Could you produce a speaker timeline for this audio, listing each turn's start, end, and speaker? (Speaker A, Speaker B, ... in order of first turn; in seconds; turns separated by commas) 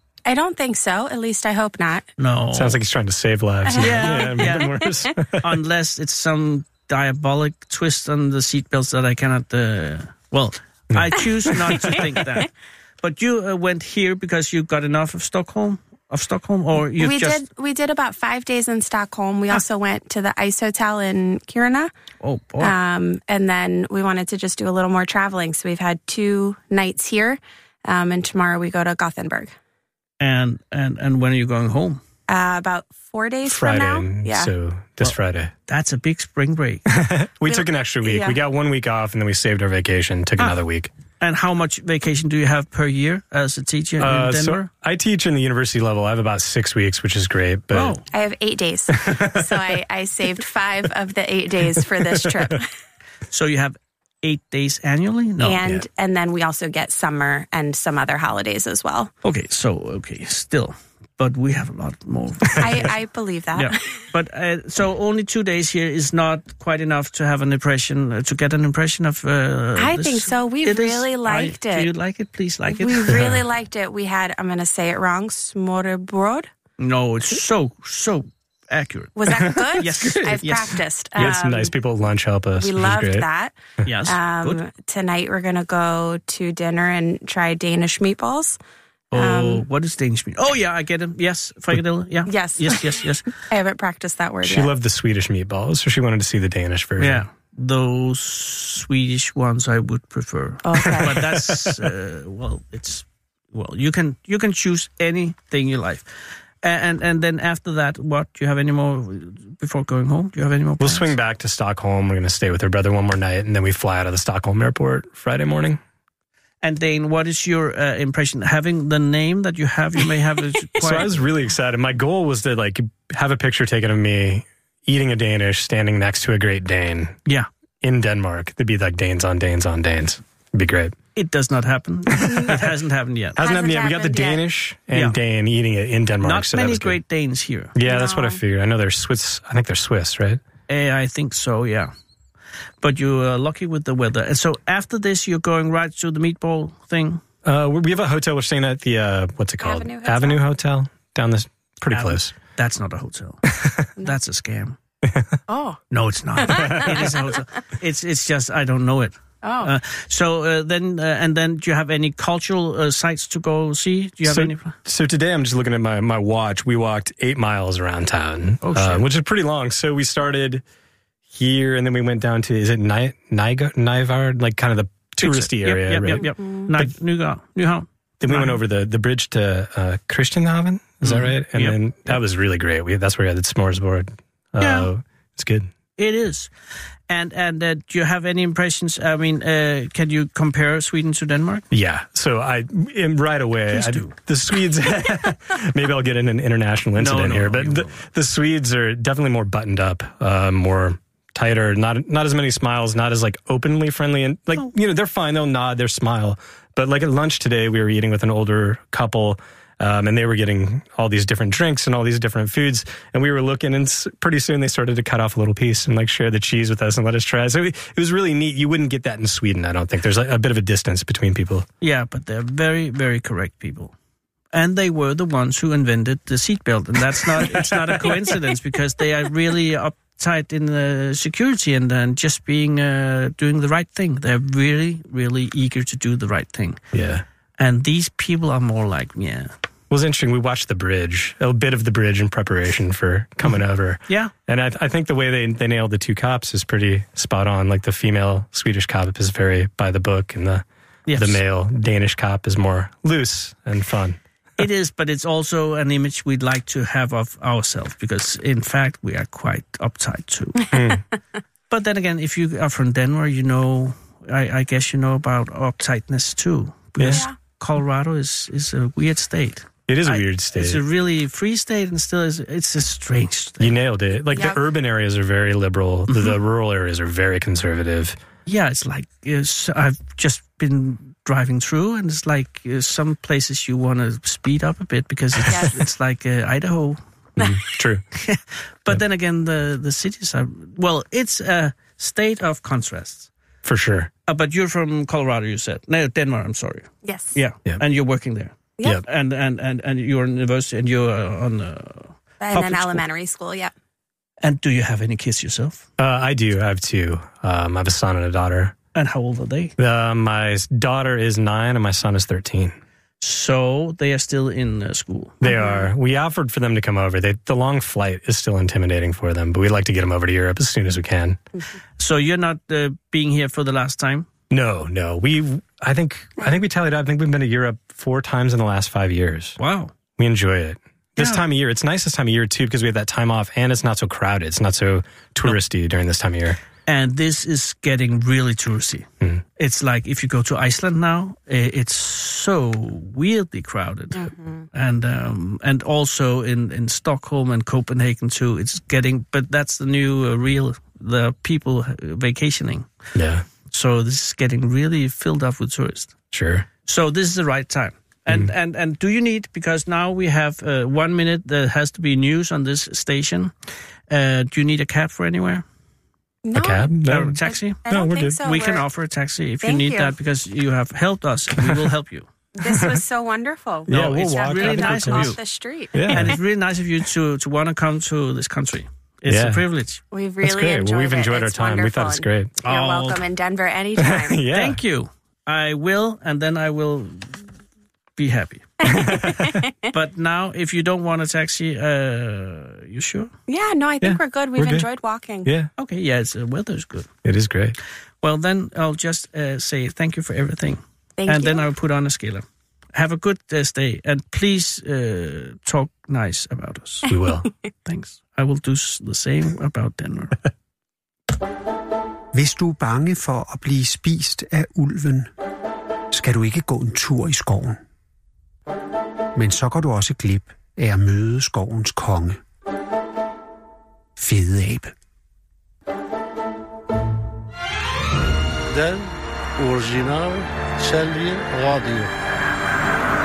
Speaker A: 0.2-2.0, Speaker B: 2.2-2.8, Speaker C: 2.5-5.5, Speaker A: 3.6-5.1, Speaker B: 3.8-4.8, Speaker B: 5.4-12.5, Speaker C: 10.9-12.0, Speaker B: 13.0-17.4, Speaker A: 17.0-21.9, Speaker B: 22.2-22.7, Speaker A: 22.6-29.5, Speaker B: 30.2-32.0, Speaker A: 32.3-34.5, Speaker C: 33.5-35.5, Speaker B: 35.7-36.9, Speaker C: 36.9-40.9, Speaker A: 37.4-38.4, Speaker B: 41.2-44.7, Speaker C: 44.0-48.0, Speaker B: 47.7-48.0, Speaker A: 48.1-52.7, Speaker C: 48.9-49.8, Speaker C: 52.1-52.5, Speaker B: 53.3-55.8, Speaker A: 55.4-59.1, Speaker B: 59.2-63.0, Speaker A: 62.6-64.1, Speaker B: 63.5-73.3, Speaker A: 69.8-71.9, Speaker A: 72.7-76.5, Speaker C: 73.1-73.4, Speaker B: 76.8-81.3, Speaker A: 79.2-81.7, Speaker C: 81.2-83.3, Speaker A: 82.5-88.6, Speaker B: 83.8-84.6, Speaker A: 89.1-89.7, Speaker B: 89.1-93.3, Speaker A: 92.2-94.7, Speaker C: 94.4-97.2, Speaker B: 97.0-106.1, Speaker A: 100.6-101.3, Speaker C: 100.8-101.9, Speaker B: 106.6-111.2, Speaker C: 110.8-115.8, Speaker B: 116.6-121.2, Speaker C: 120.8-127.2, Speaker C: 127.8-131.0, Speaker B: 131.1-133.4, Speaker C: 132.1-132.7, Speaker A: 132.3-132.5, Speaker A: 133.3-134.5, Speaker C: 133.4-137.0, Speaker B: 134.9-135.2, Speaker B: 136.2-137.7, Speaker C: 137.7-140.4, Speaker A: 137.8-138.4, Speaker B: 140.7-141.9, Speaker B: 142.8-147.2, Speaker C: 147.4-152.3, Speaker A: 149.6-150.5, Speaker B: 151.9-154.8, Speaker C: 153.5-153.9, Speaker C: 155.1-155.4, Speaker A: 155.5-155.8, Speaker B: 155.9-164.7, Speaker A: 156.4-157.4, Speaker C: 156.5-156.9, Speaker A: 159.4-159.8, Speaker C: 164.2-170.6, Speaker B: 168.6-169.1, Speaker C: 171.3-176.9, Speaker B: 175.2-178.6, Speaker A: 176.1-176.7, Speaker C: 178.2-185.7, Speaker B: 181.0-182.2, Speaker B: 184.6-184.9, Speaker B: 186.0-186.5, Speaker B: 187.1-191.7, Speaker C: 191.7-221.7, Speaker B: 193.7-194.2, Speaker B: 196.9-198.1, Speaker B: 221.8-223.9, Speaker B: 224.5-236.8, Speaker C: 227.2-228.3, Speaker C: 236.9-237.2, Speaker B: 237.6-239.5, Speaker C: 239.9-254.2, Speaker B: 243.4-244.3, Speaker B: 251.1-251.4, Speaker B: 254.6-260.6, Speaker C: 260.7-261.0, Speaker B: 261.7-273.8, Speaker C: 267.0-267.2, Speaker A: 267.0-267.4, Speaker C: 269.9-270.8, Speaker C: 273.6-278.2, Speaker A: 274.3-274.6, Speaker B: 276.1-276.4, Speaker B: 278.4-287.0, Speaker A: 285.5-285.8, Speaker C: 287.4-288.0, Speaker B: 288.1-293.3, Speaker C: 293.6-294.1, Speaker B: 294.3-302.9, Speaker A: 297.0-297.4, Speaker A: 302.4-303.7, Speaker C: 302.6-303.0, Speaker B: 304.4-305.8, Speaker C: 306.0-308.8, Speaker B: 308.9-309.7, Speaker C: 309.8-312.8, Speaker B: 313.2-315.4, Speaker A: 315.4-315.9, Speaker C: 315.4-321.4, Speaker B: 322.0-324.3, Speaker C: 324.5-329.6, Speaker B: 329.6-329.9, Speaker C: 330.2-336.6, Speaker B: 331.2-331.4, Speaker B: 336.9-339.1, Speaker B: 339.6-352.9, Speaker A: 344.1-344.6, Speaker C: 353.1-353.5, Speaker B: 353.7-356.1, Speaker C: 356.3-356.7, Speaker B: 356.8-363.5, Speaker B: 364.1-365.6, Speaker A: 366.4-366.9, Speaker C: 366.5-368.4, Speaker B: 367.0-372.3, Speaker A: 367.5-368.9, Speaker A: 369.6-370.2, Speaker A: 372.6-376.4, Speaker C: 372.6-373.0, Speaker C: 373.9-375.4, Speaker B: 373.9-375.4, Speaker C: 375.9-376.4, Speaker B: 376.1-380.0, Speaker C: 379.3-379.6, Speaker A: 380.1-384.5, Speaker C: 380.4-382.6, Speaker B: 382.6-383.2, Speaker C: 384.0-384.8, Speaker B: 384.5-387.4, Speaker B: 388.1-388.8, Speaker A: 388.8-389.9, Speaker C: 388.8-389.6, Speaker B: 389.9-393.3, Speaker A: 393.5-395.5, Speaker C: 394.0-394.9, Speaker C: 395.4-395.7, Speaker B: 395.8-397.1, Speaker C: 397.2-397.8, Speaker B: 398.2-407.1, Speaker A: 401.2-401.7, Speaker C: 407.1-407.5, Speaker B: 407.9-410.4, Speaker D: 412.3-415.3, Speaker D: 416.1-417.8, Speaker D: 419.3-422.4, Speaker D: 424.2-424.9, Speaker E: 428.7-432.1